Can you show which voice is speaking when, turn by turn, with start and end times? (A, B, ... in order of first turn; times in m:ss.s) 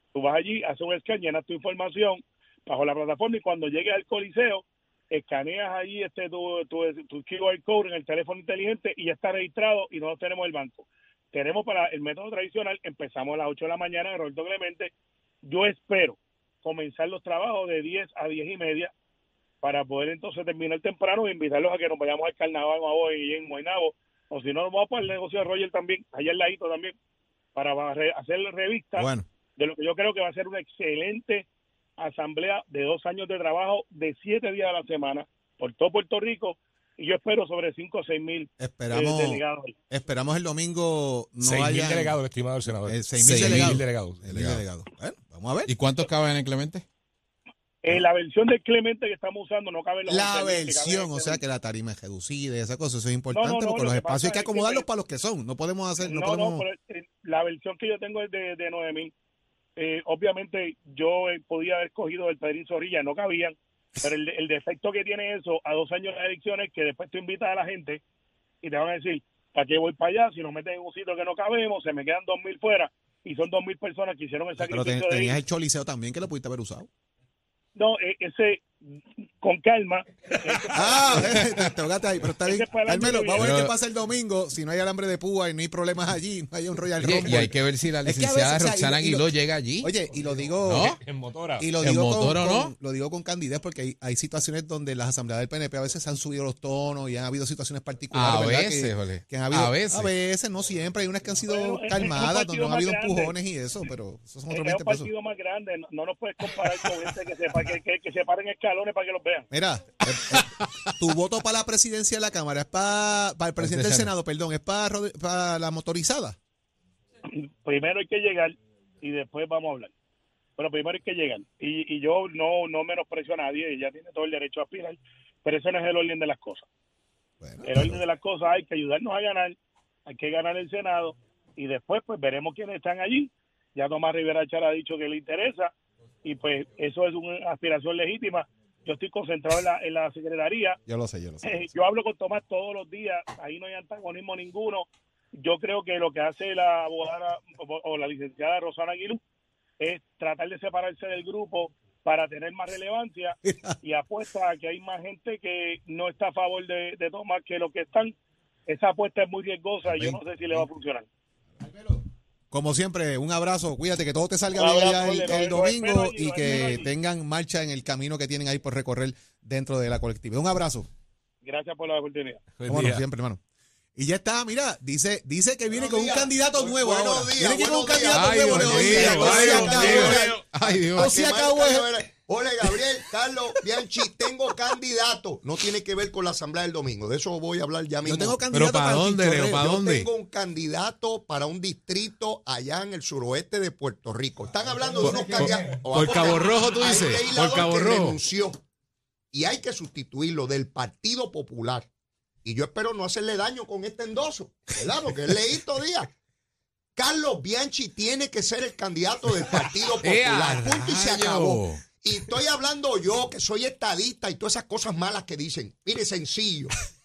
0:00.1-0:14.9 A
0:15.4-0:18.9 A
0:19.6-0:26.9 A
0:27.5-0:31.4 A
0:29.0-0:29.2 B
0:32.0-0:39.7 A
0:38.6-0:42.2 B
0:41.4-0:44.2 C
0:42.9-0:45.7 B
0:43.2-0:44.6 D
0:45.7-0:46.8 D
0:47.8-0:51.4 A
0:50.1-0:56.6 B
0:53.3-0:54.8 A
0:56.0-0:59.1 A
0:59.8-1:08.0 A
1:08.6-1:15.4 A
1:14.6-1:16.9 B
1:17.7-1:21.4 A
1:20.7-1:31.0 B
1:22.4-1:23.6 A
1:23.4-1:23.7 D
1:27.0-1:29.9 D
1:30.6-1:31.0 D
1:30.8-1:31.7 C
1:31.6-1:45.1 B
1:31.8-1:32.7 D
1:38.1-1:40.1 D
1:41.5-1:43.3 A
1:44.5-1:49.5 A
1:49.5-1:56.4 B
1:50.2-1:50.9 D
1:53.6-1:54.1 D
1:57.3-1:59.9 A
2:00.6-2:06.6 A
2:07.4-2:08.0 B
2:07.6-2:09.6 A
2:10.1-2:15.7 A
2:16.2-2:20.8 A
2:20.9-2:21.7 B
2:21.4-2:29.2 A
2:29.8-2:38.1 A
2:33.5-2:33.7 B
2:38.7-2:41.1 A
2:39.9-2:40.6 B
2:41.6-2:50.9 B
2:44.5-2:46.9 A
2:51.4-2:52.5 A
2:52.6-2:53.0 C
2:52.6-2:53.4 B
2:53.9-3:01.9 B
2:55.7-3:00.4 E
2:58.1-3:01.1 D
2:58.8-3:00.4 C
3:00.9-3:08.4 E
3:08.0-3:09.8 B
3:08.5-3:10.1 D
3:09.3-3:18.6 E
3:15.0-3:18.2 D
3:19.3-3:21.9 E
3:22.4-3:26.1 E
3:27.0-3:36.7 E
3:30.0-3:31.8 D